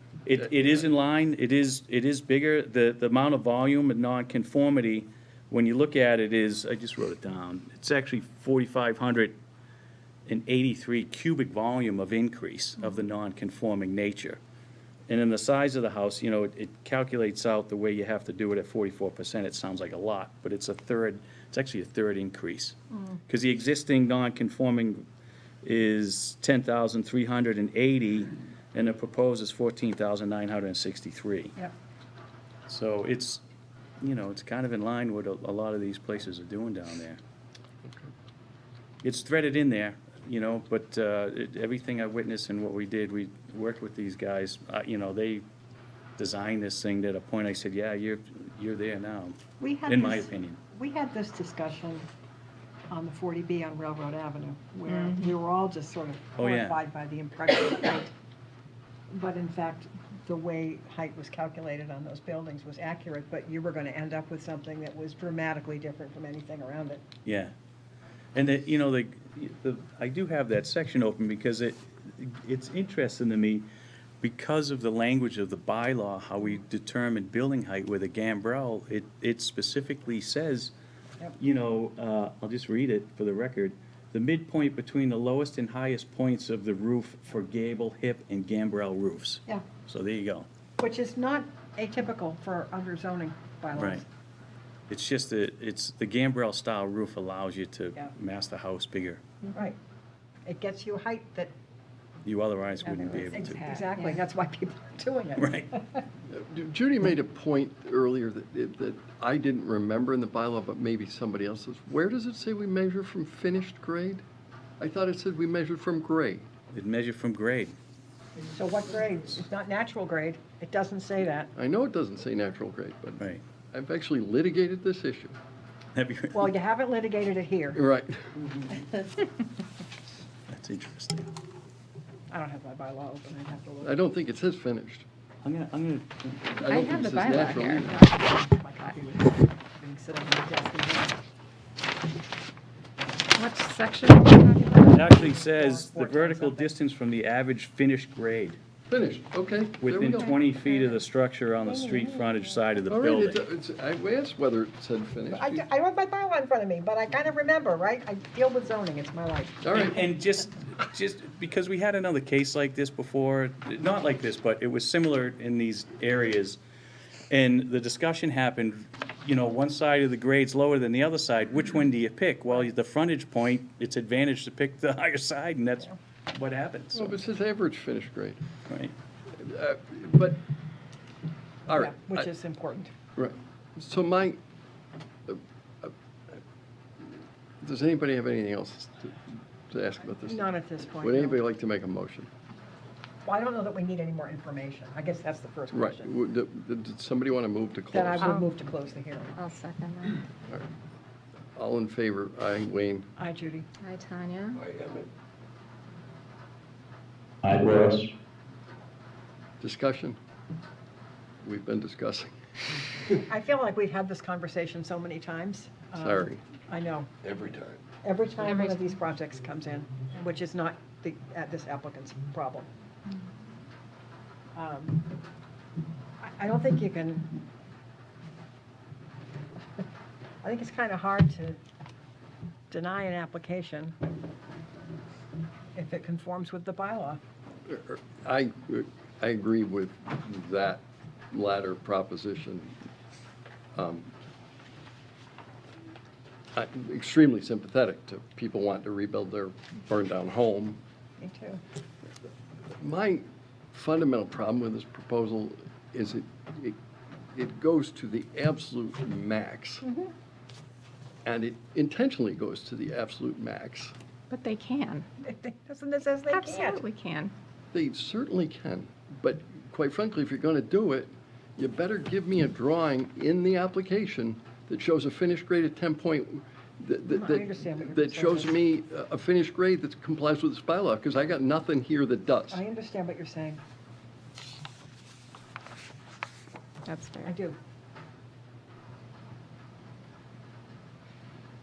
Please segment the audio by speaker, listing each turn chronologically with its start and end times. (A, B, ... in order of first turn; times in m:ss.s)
0:00.2-0:09.3 A
0:00.4-0:00.7 B
0:10.3-0:14.4 A
0:15.1-0:22.8 A
0:22.9-0:23.2 C
0:23.3-0:25.0 A
0:25.6-0:31.6 A
0:32.7-0:33.4 A
0:34.0-0:37.2 A
0:37.8-0:38.1 B
0:39.0-0:45.4 A
0:46.2-0:49.4 A
0:49.6-0:52.1 C
0:49.9-0:50.6 A
0:52.9-0:58.1 C
0:54.9-0:55.3 D
0:56.4-0:56.8 A
0:59.1-1:07.0 C
1:07.2-1:07.5 A
1:08.3-1:13.7 A
1:14.2-1:20.7 A
1:21.4-1:30.5 A
1:30.8-1:34.0 C
1:33.7-1:34.0 A
1:34.9-1:39.2 A
1:40.4-1:41.5 C
1:42.2-1:43.7 A
1:42.8-1:44.2 D
1:43.2-1:46.0 C
1:45.4-1:45.7 A
1:46.3-1:54.2 B
1:54.8-1:56.5 B
1:56.7-1:57.8 A
1:58.5-2:01.5 C
2:01.6-2:05.4 B
2:03.2-2:03.4 A
2:05.9-2:06.5 A
2:06.3-2:07.8 C
2:07.7-2:08.4 B
2:10.5-2:11.3 A
2:12.3-2:14.0 C
2:13.8-2:15.0 B
2:15.4-2:16.7 A
2:16.5-2:18.1 B
2:16.6-2:18.0 D
2:17.5-2:21.2 C
2:23.3-2:25.2 D
2:24.9-2:28.6 A
2:25.0-2:26.7 C
2:28.9-2:30.4 B
2:29.8-2:33.4 A
2:30.6-2:31.0 C
2:31.6-2:32.6 C
2:32.9-2:35.6 B
2:35.3-2:39.6 C
2:39.6-2:40.0 B
2:39.7-2:46.6 A
2:47.3-2:57.2 A
2:56.9-2:58.4 B
2:58.6-2:58.9 A
2:59.3-3:00.4 B
3:01.7-3:02.3 B
3:01.7-3:02.9 C
3:03.2-3:04.4 B
3:05.3-3:06.4 B
3:07.0-3:10.5 B
3:10.2-3:11.4 C
3:11.0-3:12.3 B
3:13.2-3:16.1 C
3:15.7-3:18.4 B
3:17.9-3:19.4 C
3:18.2-3:18.4 D
3:19.4-3:20.2 D
3:21.6-3:23.1 B
3:23.2-3:23.7 C
3:23.8-3:24.6 D
3:24.6-3:25.0 B
3:27.4-3:28.1 A
3:29.6-3:30.2 B
3:31.4-3:32.3 B
3:33.3-3:37.1 C
3:36.0-3:36.4 B
3:37.2-3:37.8 B
3:38.0-3:42.7 C
3:38.4-3:38.8 D
3:44.5-3:45.0 C
3:46.2-3:47.3 C
3:50.4-3:51.6 C
3:52.7-3:53.9 C
3:55.7-3:57.2 C
3:57.6-4:02.8 B
4:03.7-4:04.1 B
4:06.5-4:10.8 B
4:11.2-4:11.6 C
4:12.8-4:16.8 B
4:17.3-4:19.8 B
4:19.8-4:20.1 C
4:21.2-4:23.9 B
4:24.3-4:25.1 D
4:25.2-4:26.8 C
4:26.3-4:27.3 D
4:27.7-4:42.6 B
4:37.1-4:38.6 C
4:42.5-4:43.6 C
4:46.8-4:47.3 D
4:47.2-4:47.6 C